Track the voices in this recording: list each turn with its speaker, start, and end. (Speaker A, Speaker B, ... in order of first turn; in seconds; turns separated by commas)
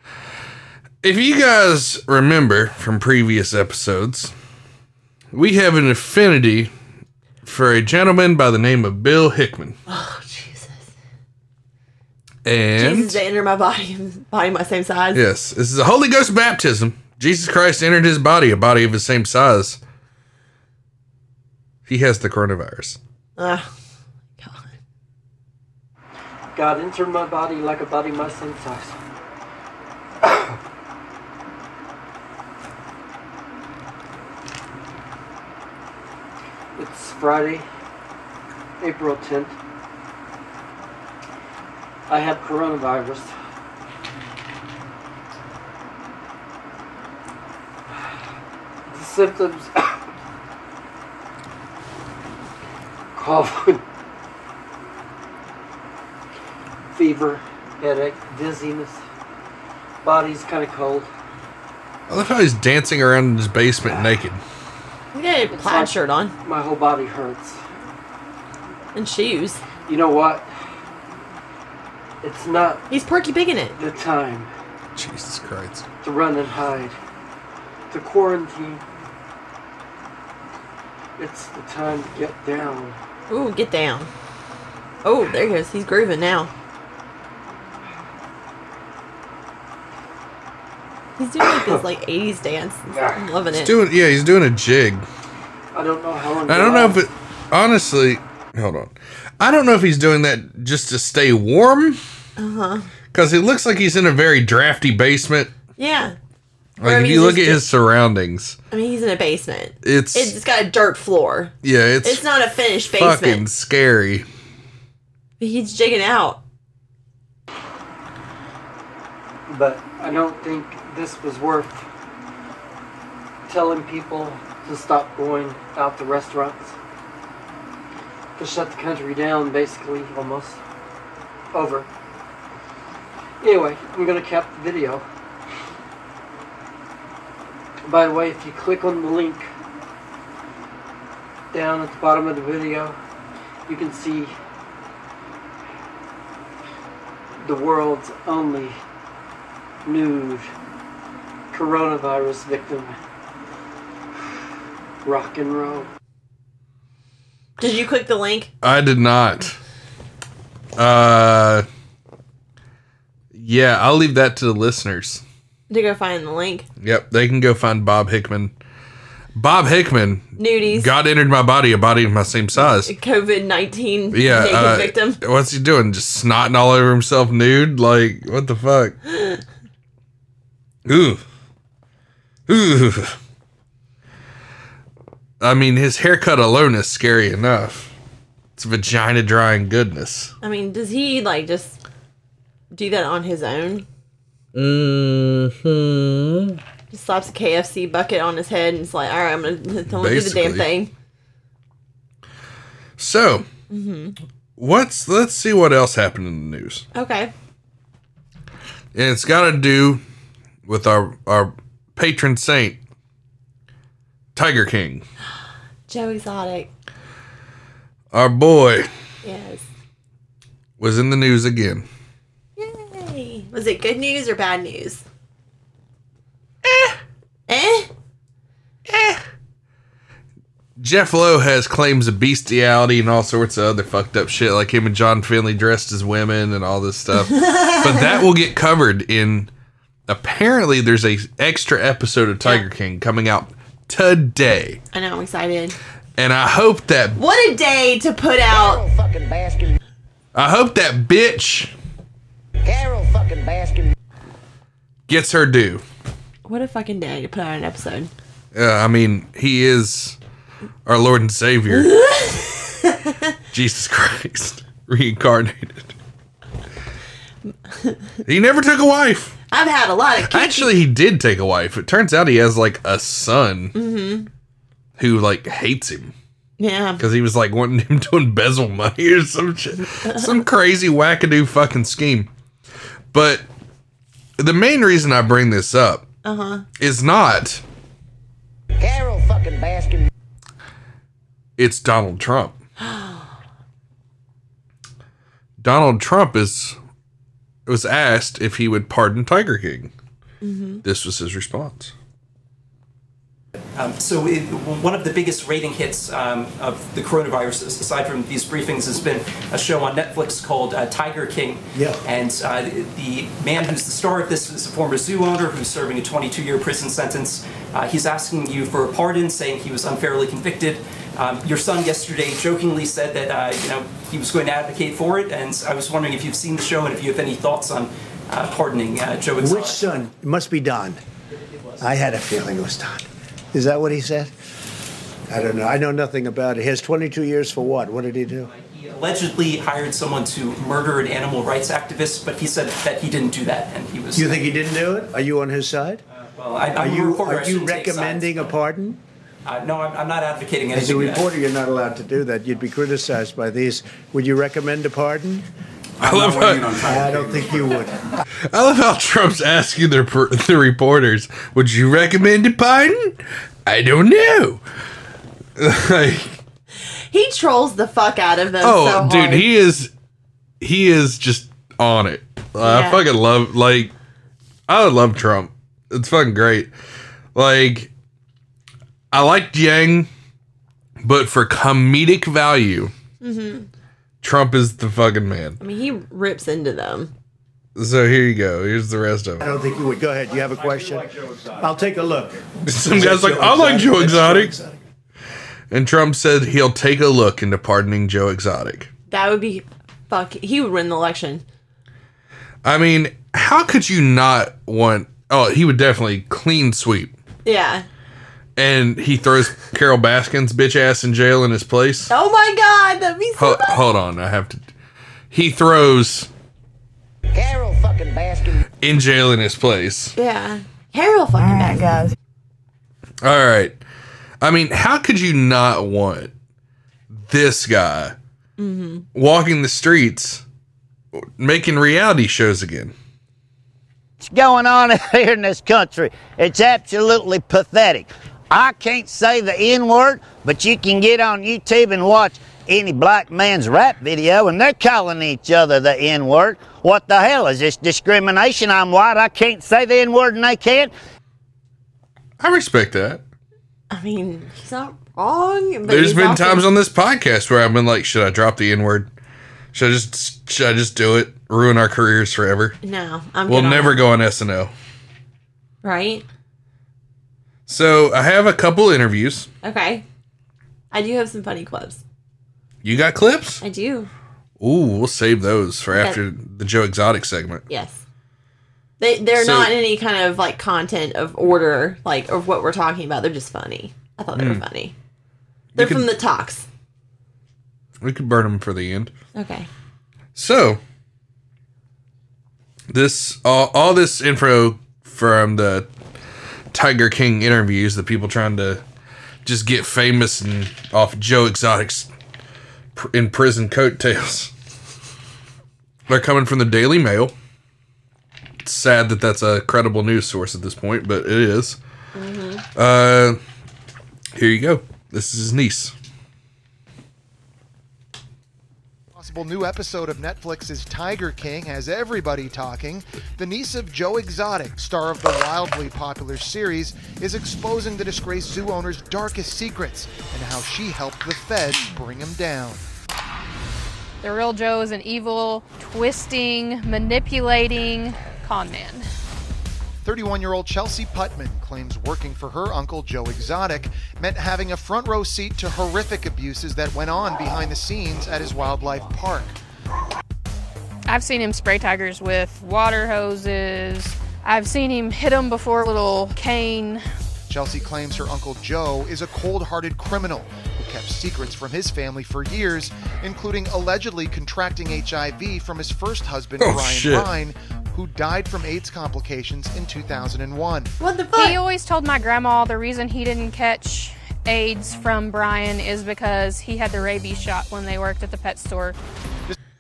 Speaker A: 1.0-4.3, Speaker A: 5.3-6.7, Speaker A: 7.4-9.8, Speaker B: 9.9-10.9, Speaker A: 12.4-13.2, Speaker B: 12.8-15.2, Speaker A: 15.1-19.8, Speaker A: 21.9-23.0, Speaker B: 23.4-23.7, Speaker B: 24.4-24.7, Speaker C: 26.5-29.0, Speaker C: 30.2-30.6, Speaker C: 36.8-37.6, Speaker C: 38.8-39.5, Speaker C: 42.1-43.3, Speaker C: 48.9-50.0, Speaker C: 53.1-53.8, Speaker C: 56.9-59.0, Speaker C: 60.0-61.1, Speaker A: 62.1-64.4, Speaker B: 65.1-66.3, Speaker C: 65.5-67.6, Speaker B: 69.0-69.7, Speaker C: 69.9-70.5, Speaker C: 72.2-72.8, Speaker B: 72.9-73.8, Speaker C: 73.8-74.5, Speaker A: 75.0-75.9, Speaker C: 76.0-77.0, Speaker C: 77.9-78.8, Speaker C: 81.2-83.0, Speaker B: 83.3-84.1, Speaker B: 85.0-86.5, Speaker B: 91.2-93.7, Speaker C: 91.5-91.8, Speaker C: 92.9-93.2, Speaker A: 93.6-95.1, Speaker C: 95.7-97.0, Speaker A: 96.5-102.0, Speaker B: 102.4-102.9, Speaker A: 103.1-105.5, Speaker B: 105.8-106.2, Speaker A: 106.8-108.6, Speaker B: 106.8-107.7, Speaker B: 108.7-113.4, Speaker A: 109.8-110.3, Speaker A: 111.6-112.2, Speaker A: 112.9-114.3, Speaker B: 115.4-116.4, Speaker C: 119.5-121.8, Speaker C: 123.5-126.8, Speaker C: 128.4-130.6, Speaker C: 131.5-131.9, Speaker C: 133.4-135.1, Speaker C: 137.8-139.5, Speaker C: 141.5-143.0, Speaker C: 143.7-144.3, Speaker C: 147.4-148.8, Speaker C: 149.8-150.5, Speaker C: 151.5-153.0, Speaker C: 155.0-155.9, Speaker B: 157.6-158.5, Speaker A: 158.6-159.6, Speaker A: 160.8-161.7, Speaker A: 163.3-165.2, Speaker B: 165.7-166.7, Speaker A: 166.8-168.5, Speaker A: 169.3-172.9, Speaker B: 170.4-170.9, Speaker B: 172.6-175.2, Speaker A: 174.1-179.0, Speaker A: 180.9-181.2, Speaker A: 182.5-183.2, Speaker A: 185.4-187.9, Speaker A: 188.6-190.3, Speaker B: 190.4-191.8, Speaker B: 192.7-193.9, Speaker B: 196.9-200.9, Speaker A: 199.9-200.7, Speaker A: 203.0-203.4, Speaker B: 203.7-204.2, Speaker A: 204.6-206.8, Speaker B: 206.9-207.3, Speaker A: 208.9-210.0, Speaker A: 210.7-212.8, Speaker A: 214.3-215.1, Speaker B: 215.9-216.7, Speaker A: 218.1-218.9, Speaker B: 219.2-219.7, Speaker A: 220.8-221.9, Speaker B: 222.6-225.0, Speaker A: 226.7-226.9, Speaker B: 227.5-227.9, Speaker A: 228.9-229.2, Speaker A: 230.8-239.5, Speaker B: 237.2-238.3, Speaker A: 240.1-244.8, Speaker B: 244.9-245.8, Speaker A: 246.2-247.2, Speaker B: 247.2-248.8, Speaker D: 248.5-249.7, Speaker A: 250.3-251.7, Speaker D: 252.6-253.9, Speaker A: 255.1-255.8, Speaker B: 256.4-258.1, Speaker A: 258.5-260.2, Speaker A: 260.9-261.9, Speaker B: 261.7-263.0, Speaker A: 263.5-265.9, Speaker A: 268.2-269.3, Speaker B: 269.5-270.7, Speaker A: 270.2-273.7, Speaker B: 273.7-274.3, Speaker A: 275.0-276.1, Speaker B: 276.6-277.0, Speaker A: 277.0-282.3, Speaker A: 283.1-283.4, Speaker A: 284.4-286.1, Speaker B: 286.2-286.6, Speaker A: 286.8-287.6, Speaker D: 288.8-290.1, Speaker A: 291.6-292.6, Speaker B: 292.8-293.2, Speaker A: 295.6-296.8, Speaker A: 297.7-299.9, Speaker B: 300.4-300.8, Speaker A: 300.8-301.9, Speaker E: 303.8-329.9, Speaker F: 311.7-312.0, Speaker F: 329.4-331.0, Speaker F: 331.8-334.3, Speaker F: 335.3-338.5, Speaker E: 338.6-344.5, Speaker F: 344.1-346.0, Speaker E: 346.4-348.5, Speaker F: 346.7-349.0, Speaker E: 349.4-351.3, Speaker F: 350.7-355.5, Speaker A: 356.0-356.8, Speaker F: 356.1-358.1, Speaker A: 358.5-364.6, Speaker A: 365.6-366.4, Speaker B: 367.1-369.5, Speaker A: 368.6-369.9, Speaker A: 370.6-373.9, Speaker B: 372.6-373.0, Speaker A: 374.7-376.7, Speaker A: 377.4-377.9, Speaker A: 379.1-380.1, Speaker A: 381.0-382.9, Speaker B: 383.2-383.7, Speaker A: 384.2-385.6, Speaker B: 385.6-387.1, Speaker A: 387.8-389.4, Speaker F: 389.4-394.8, Speaker A: 392.7-394.6, Speaker A: 395.7-398.9, Speaker B: 399.1-401.4, Speaker A: 402.6-407.1, Speaker B: 407.4-407.9, Speaker A: 408.6-412.1, Speaker B: 412.1-413.8, Speaker A: 413.4-414.7, Speaker A: 415.3-416.3, Speaker D: 417.3-418.6, Speaker A: 418.8-420.1, Speaker B: 420.2-422.0, Speaker A: 423.2-423.8, Speaker A: 424.4-426.3, Speaker A: 427.1-428.1, Speaker B: 428.6-429.1, Speaker A: 429.1-430.4, Speaker A: 431.4-432.9, Speaker D: 434.2-450.9, Speaker A: 452.4-453.2, Speaker B: 453.9-456.7, Speaker A: 455.9-459.1, Speaker A: 459.7-462.8, Speaker B: 462.8-464.1, Speaker A: 463.5-464.7, Speaker B: 465.8-466.2, Speaker A: 467.7-469.5, Speaker B: 469.6-470.1, Speaker B: 470.9-472.0, Speaker A: 472.8-473.6, Speaker B: 473.6-474.1, Speaker A: 474.6-477.6, Speaker B: 475.9-476.2, Speaker B: 477.7-478.0, Speaker B: 479.0-484.9, Speaker A: 479.4-479.7, Speaker A: 484.4-484.6, Speaker A: 485.8-486.1, Speaker B: 485.8-486.7, Speaker A: 488.0-489.1, Speaker B: 489.3-489.7, Speaker A: 490.4-490.8, Speaker A: 492.9-495.9, Speaker A: 496.7-498.8, Speaker A: 499.4-502.1, Speaker A: 502.9-504.5, Speaker A: 506.1-507.3, Speaker A: 508.6-511.8, Speaker B: 512.1-512.6, Speaker A: 512.8-513.4, Speaker A: 514.4-515.9, Speaker G: 519.1-532.8, Speaker H: 534.2-539.1, Speaker G: 540.0-549.5, Speaker H: 551.1-557.0, Speaker G: 557.5-570.9, Speaker A: 566.6-567.3, Speaker B: 571.0-571.6, Speaker H: 571.3-579.0